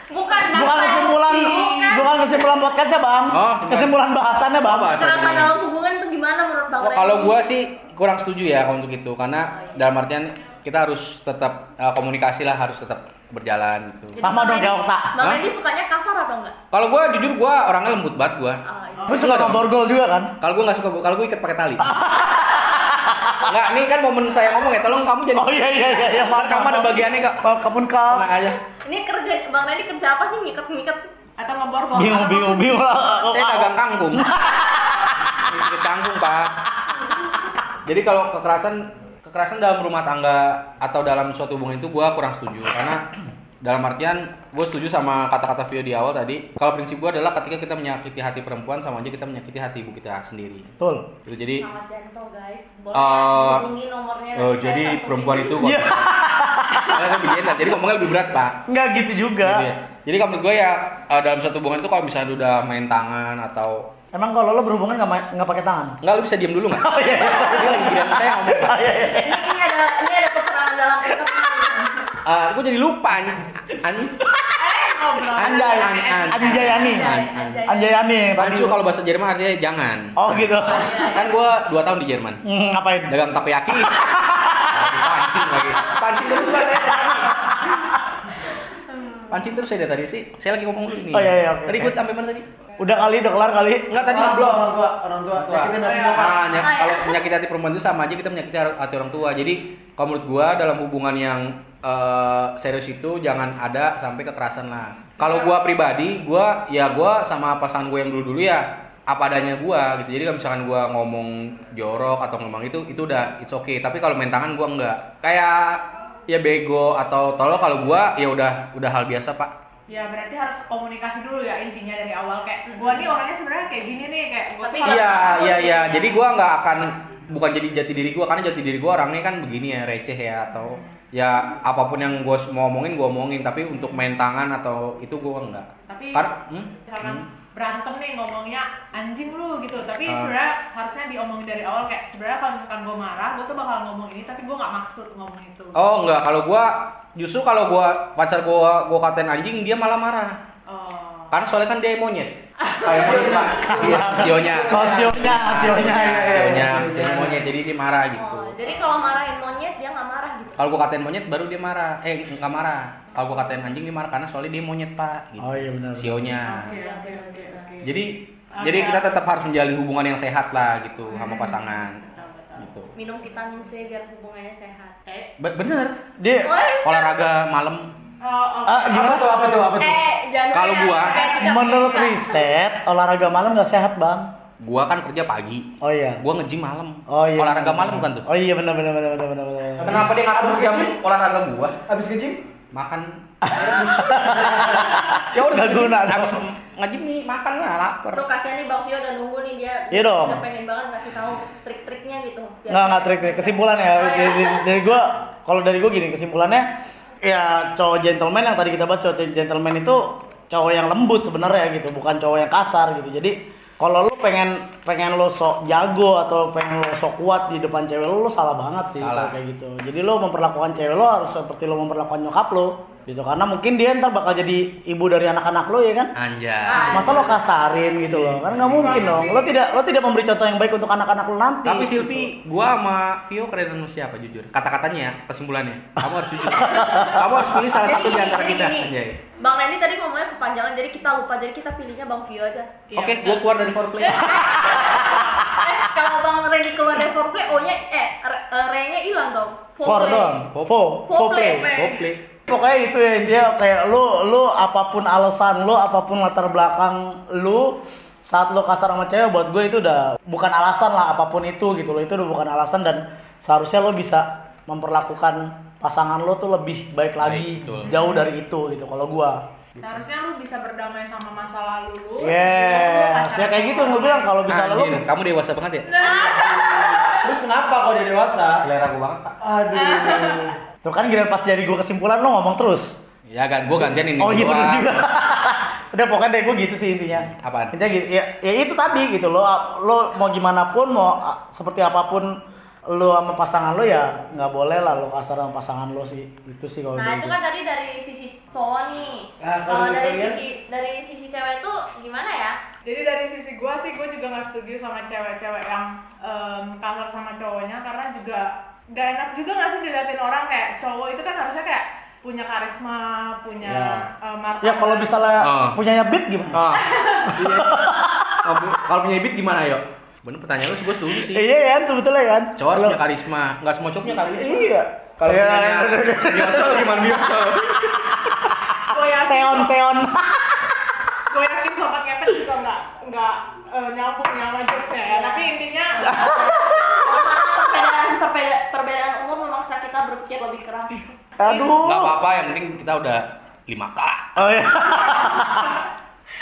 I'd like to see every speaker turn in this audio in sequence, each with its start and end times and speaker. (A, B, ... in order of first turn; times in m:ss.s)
0:00.1-0:02.2 A
0:00.4-0:05.0 B
0:01.3-0:01.9 C
0:03.3-0:04.0 D
0:04.6-0:05.6 D
0:04.9-0:07.4 A
0:06.8-0:14.2 D
0:09.5-0:09.8 A
0:14.2-0:16.6 A
0:14.2-0:15.2 B
0:15.2-0:15.4 D
0:16.7-0:19.6 D
0:18.6-0:19.2 A
0:19.1-0:20.3 B
0:20.4-0:21.9 D
0:21.8-0:23.6 B
0:23.4-0:27.4 D
0:25.3-0:28.3 B
0:28.1-0:28.6 D
0:28.7-0:31.1 A
0:31.4-0:32.8 C
0:31.9-0:35.4 B
0:33.3-0:34.3 D
0:35.4-0:36.5 D
0:37.8-0:43.1 D
0:43.6-0:50.7 D
0:50.8-0:51.1 B
0:51.2-0:51.6 D
0:51.6-0:55.6 A
0:52.9-0:53.7 D
0:54.4-0:58.6 D
0:55.6-0:57.5 B
0:58.7-0:59.7 B
0:59.4-1:03.9 D
1:04.1-1:06.0 B
1:06.0-1:08.8 D
1:06.8-1:09.5 B
1:09.1-1:12.1 A
1:12.2-1:14.4 D
1:14.6-1:16.4 C
1:15.3-1:17.6 D
1:15.4-1:18.8 B
1:16.5-1:17.9 A
1:18.4-1:22.4 D
1:20.2-1:20.9 B
1:20.6-1:21.4 A
1:22.4-1:23.2 B
1:23.1-1:27.9 D
1:23.7-1:25.2 B
1:27.0-1:27.7 B
1:29.3-1:32.4 D
1:31.1-1:32.0 B
1:32.8-1:34.0 B
1:33.9-1:34.7 D
1:34.0-1:36.6 E
1:35.4-1:59.5 D
1:35.8-1:36.2 C
1:36.5-1:37.2 A
1:59.9-2:05.4 C
2:04.6-2:06.2 A
2:04.8-2:17.2 D
2:15.9-2:16.3 C
2:16.8-2:25.8 C
2:20.0-2:20.3 D
2:25.7-2:30.4 D
2:30.7-2:31.3 C
2:31.3-2:38.6 D
2:32.6-2:33.1 C
2:32.8-2:37.4 E
2:33.6-2:36.7 B
2:38.1-2:40.7 A
2:40.6-2:46.7 D
2:45.4-2:46.3 B
2:46.4-2:48.0 C
2:46.6-2:47.8 A
2:47.8-2:52.0 D
2:48.5-2:49.1 C
2:51.1-2:52.7 C
2:52.6-2:52.9 D
2:52.9-2:55.0 A
2:55.0-2:55.3 C
2:55.4-2:56.0 D
2:56.2-2:56.5 B
2:56.4-2:57.2 A
2:56.8-2:57.9 D
2:58.2-2:59.3 C
2:58.6-2:59.6 B
2:58.9-3:00.0 E
2:59.8-3:02.4 A
3:00.5-3:01.2 D
3:00.9-3:02.1 C
3:01.4-3:04.3 B
3:04.6-3:08.3 D
3:05.8-3:06.2 B
3:07.1-3:10.1 B
3:09.8-3:10.9 E
3:09.8-3:11.8 D
3:11.9-3:12.4 E
3:12.7-3:18.2 D
3:13.4-3:16.4 B
3:14.2-3:15.0 E
3:18.1-3:24.9 A
3:19.9-3:20.4 B
3:22.7-3:26.7 B
3:27.2-3:46.1 B
3:39.0-3:39.4 D
3:46.2-3:47.2 D
3:46.7-3:47.3 A
3:46.8-3:52.3 B
3:46.8-3:47.2 C
3:48.0-3:49.3 E
3:48.7-3:49.5 C
3:51.6-3:59.2 D
3:56.6-3:57.2 A
3:56.6-3:57.3 B
3:57.7-4:02.8 A
4:02.9-4:03.4 C
4:02.9-4:05.0 D
4:04.0-4:04.5 C
4:04.2-4:10.4 A
4:09.8-4:11.7 B
4:10.3-4:10.8 D
4:11.0-4:11.7 A
4:11.4-4:12.1 C
4:11.7-4:12.2 D
4:12.5-4:29.4 B
4:27.2-4:27.9 D
4:27.9-4:28.1 C
4:29.8-4:34.4 C
4:32.2-4:35.0 B
4:34.5-4:36.0 D
4:35.8-4:37.3 C
4:36.0-4:38.7 E
4:36.2-4:36.6 A
4:38.6-4:39.4 D
4:39.4-4:40.6 E
4:39.7-4:40.4 C
4:40.8-4:43.0 B
4:43.3-4:45.0 D
4:43.8-4:52.4 B
4:47.2-4:47.8 D
4:52.9-4:57.3 B
4:56.9-5:02.6 A
4:59.4-5:00.4 E
5:02.8-5:15.2 C
5:13.6-5:14.0 B
5:14.6-5:16.7 B
5:15.4-5:15.8 D
5:16.5-5:21.4 D
5:17.0-5:17.3 C
5:17.2-5:18.6 B
5:21.2-5:23.0 B
5:22.6-5:28.4 D
5:24.2-5:31.0 B
5:28.9-5:29.7 C
5:31.3-5:37.1 C
5:35.1-5:35.5 A
5:36.0-5:37.3 B
5:36.8-5:41.1 A
5:41.4-5:42.2 B
5:41.4-5:41.8 C
5:41.8-5:44.5 D
5:44.4-5:45.8 B
5:44.8-5:45.7 C